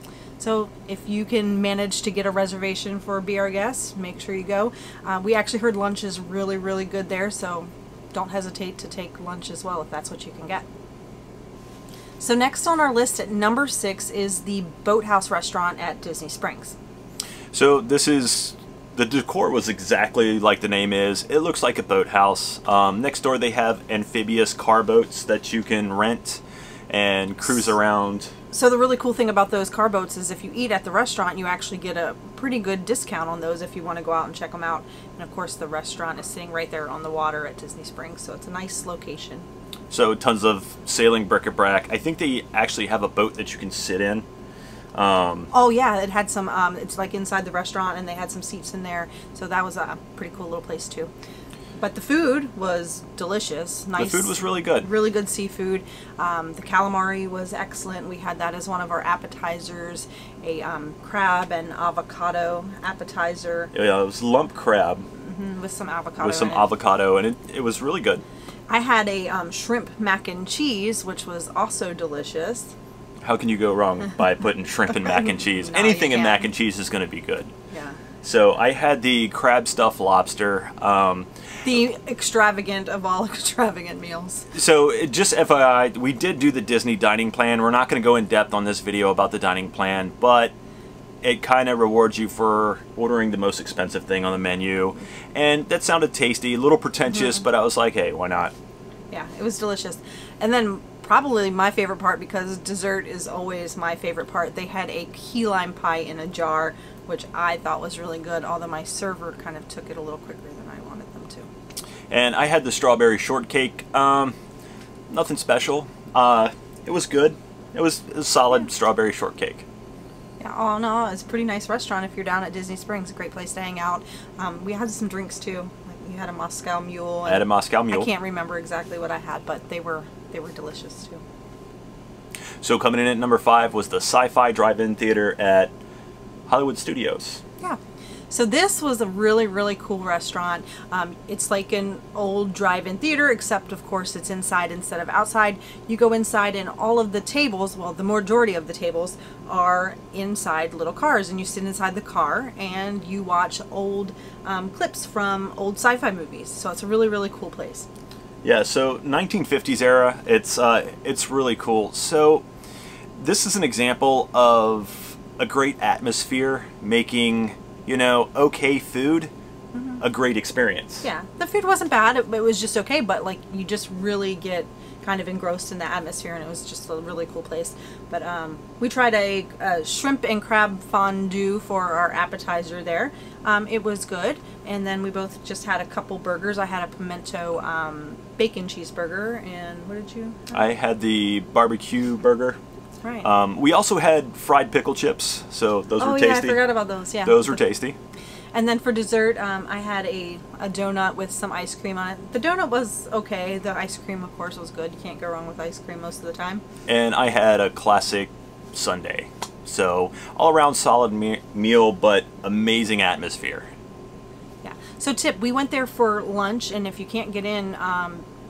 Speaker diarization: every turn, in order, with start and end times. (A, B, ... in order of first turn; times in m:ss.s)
0:00.4-0:10.6 A
0:12.2-0:16.7 A
0:17.5-0:28.3 B
0:28.5-0:39.5 A
0:39.9-0:44.2 B
0:44.9-0:45.5 B
0:45.5-0:51.1 A
0:51.8-1:03.7 A
0:54.0-0:54.9 B
1:03.7-1:05.0 B
1:05.2-1:06.7 A
1:06.2-1:08.2 B
1:08.7-1:12.7 A
1:13.2-1:17.5 B
1:14.9-1:16.5 A
1:17.7-1:18.0 A
1:18.2-1:21.3 B
1:21.6-1:24.5 A
1:24.5-1:30.5 B
1:31.2-1:38.5 B
1:39.1-1:51.5 A
1:52.1-1:54.3 B
1:55.1-1:59.6 B
2:00.4-2:11.2 A
2:07.2-2:08.1 B
2:12.6-2:15.7 B
2:16.5-2:17.4 B
2:18.3-2:37.9 A
2:38.4-2:42.4 B
2:43.2-2:49.3 B
2:49.7-2:50.0 A
2:50.0-2:51.0 B
2:51.0-3:10.7 A
3:10.5-3:12.6 B
3:13.0-3:13.3 A
3:13.2-3:16.6 B
3:16.0-3:17.6 A
3:17.2-3:18.0 B
3:18.5-3:26.6 A
3:26.8-3:33.7 B
3:34.6-3:38.2 A